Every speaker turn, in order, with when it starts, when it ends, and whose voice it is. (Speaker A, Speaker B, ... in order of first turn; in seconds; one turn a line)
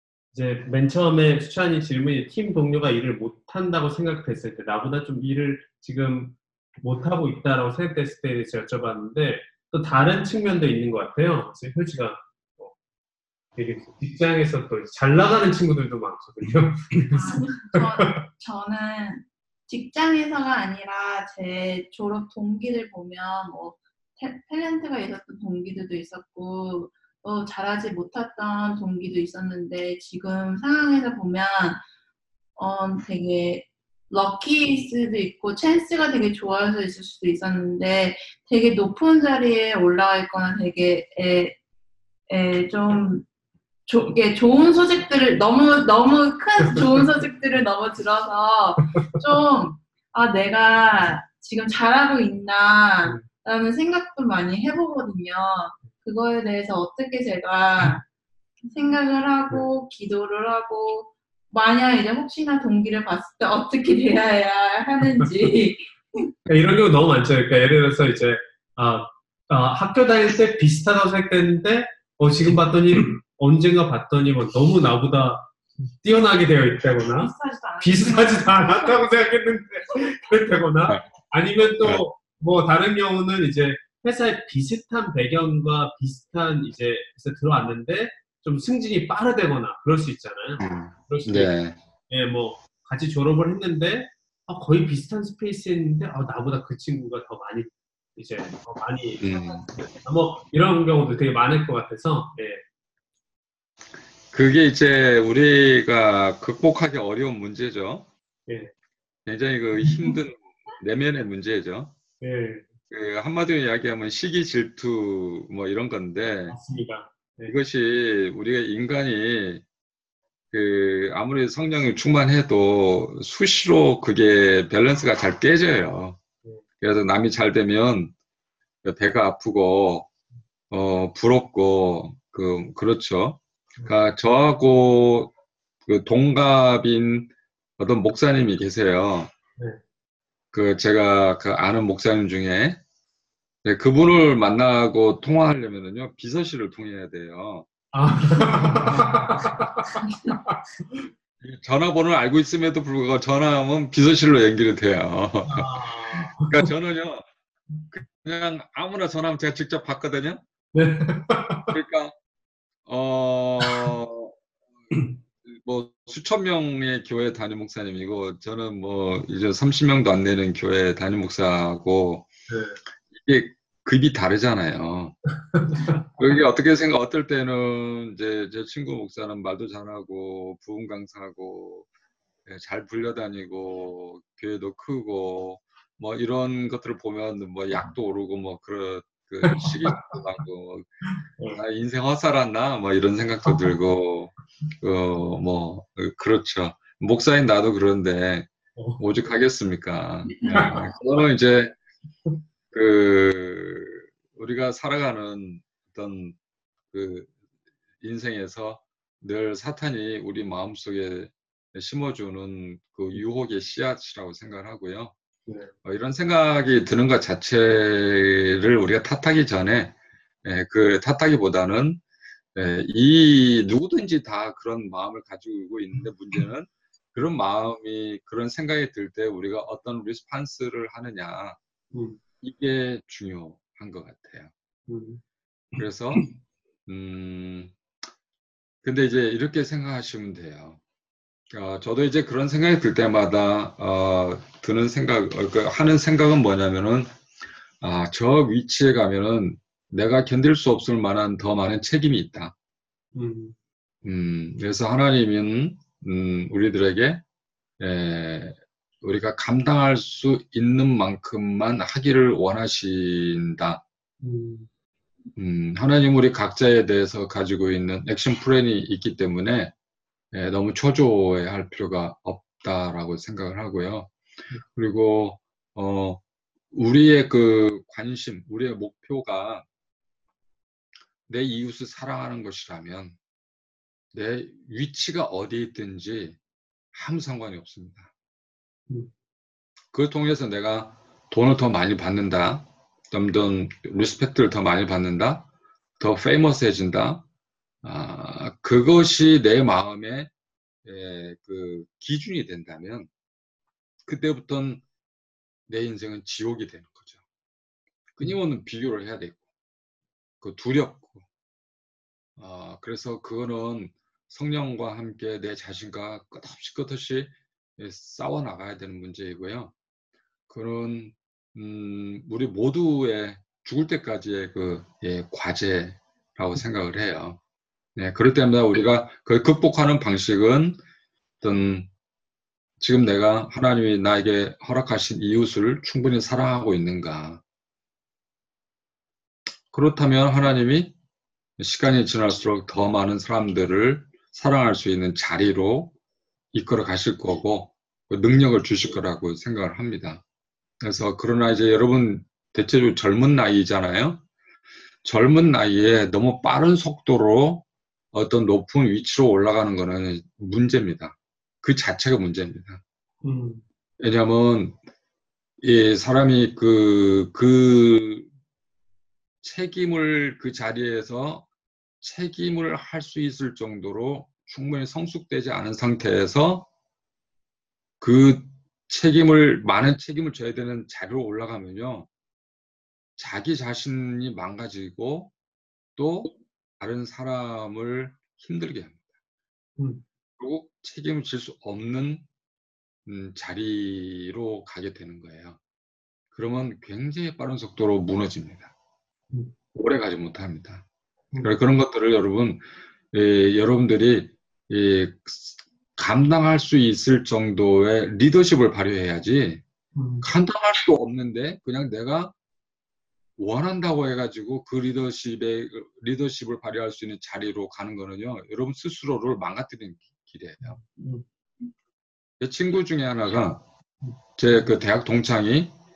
Speaker A: 0.3-12.7
Speaker A: 13.6-18.2
Speaker B: 17.1-31.8
Speaker B: 32.6-41.6
Speaker B: 42.3-43.2
Speaker B: 43.9-58.0
Speaker B: 58.7-66.3
Speaker A: 66.5-91.5
Speaker B: 77.0-78.9
Speaker C: 90.6-91.8
Speaker A: 92.1-102.6
Speaker C: 99.2-99.6
Speaker C: 104.3-108.1
Speaker A: 108.5-108.7
Speaker C: 109.2-111.9
Speaker A: 112.2-112.7
Speaker C: 112.9-116.6
Speaker A: 116.5-117.5
Speaker C: 117.5-119.6
Speaker C: 120.5-126.2
Speaker C: 126.8-128.1
Speaker C: 128.8-130.1
Speaker C: 130.7-135.3
Speaker C: 135.8-139.3
Speaker C: 140.5-142.8
Speaker C: 143.6-147.7
Speaker A: 147.9-151.0
Speaker C: 151.4-157.2
Speaker A: 155.4-156.7
Speaker C: 157.9-160.4
Speaker A: 160.7-161.8
Speaker C: 161.7-162.1
Speaker C: 162.8-164.3
Speaker C: 165.4-172.3
Speaker A: 172.5-172.8
Speaker C: 173.1-175.2
Speaker A: 175.5-176.1
Speaker C: 176.2-181.8
Speaker C: 182.4-190.9
Speaker A: 189.4-190.1
Speaker C: 191.5-201.7
Speaker A: 198.8-199.0
Speaker A: 200.4-200.9
Speaker C: 202.7-206.3
Speaker C: 206.9-207.3
Speaker C: 208.0-215.1
Speaker A: 215.4-215.7
Speaker C: 215.8-222.0
Speaker C: 222.5-231.6
Speaker A: 231.9-232.2
Speaker C: 232.4-234.5
Speaker A: 234.9-235.2
Speaker C: 235.8-236.3
Speaker C: 236.9-237.7
Speaker C: 238.8-240.8
Speaker C: 241.5-247.1
Speaker C: 247.8-252.5
Speaker A: 253.1-253.5
Speaker C: 254.0-257.2
Speaker C: 257.8-263.8
Speaker A: 264.2-264.7
Speaker C: 265.4-269.7
Speaker C: 270.3-274.1
Speaker C: 274.7-276.2
Speaker C: 276.7-279.6
Speaker C: 281.3-283.2
Speaker C: 284.1-286.4
Speaker C: 286.9-288.1
Speaker C: 289.9-295.5
Speaker C: 296.0-297.2
Speaker C: 297.8-300.3
Speaker C: 300.8-303.1
Speaker C: 304.1-304.8
Speaker C: 305.7-307.2
Speaker C: 308.1-309.4
Speaker C: 310.4-311.2
Speaker C: 312.4-319.7
Speaker C: 320.5-327.4
Speaker C: 327.9-330.8
Speaker C: 331.4-331.9
Speaker C: 332.8-337.4
Speaker C: 339.7-340.9
Speaker C: 341.6-345.9
Speaker C: 346.5-350.2
Speaker C: 350.8-354.2
Speaker C: 355.0-362.8
Speaker A: 363.2-363.6
Speaker C: 364.0-364.8
Speaker C: 365.6-368.3
Speaker C: 369.4-371.4
Speaker C: 372.0-376.7
Speaker C: 378.0-382.1
Speaker C: 383.2-385.3
Speaker C: 386.0-389.1
Speaker A: 389.8-390.0
Speaker C: 390.4-392.2
Speaker C: 393.1-395.6
Speaker C: 396.3-398.7
Speaker C: 399.7-400.8
Speaker C: 401.4-409.6
Speaker A: 409.9-410.3
Speaker C: 410.2-412.3
Speaker C: 413.4-420.8
Speaker A: 420.6-421.2
Speaker C: 422.4-423.6
Speaker C: 424.4-425.7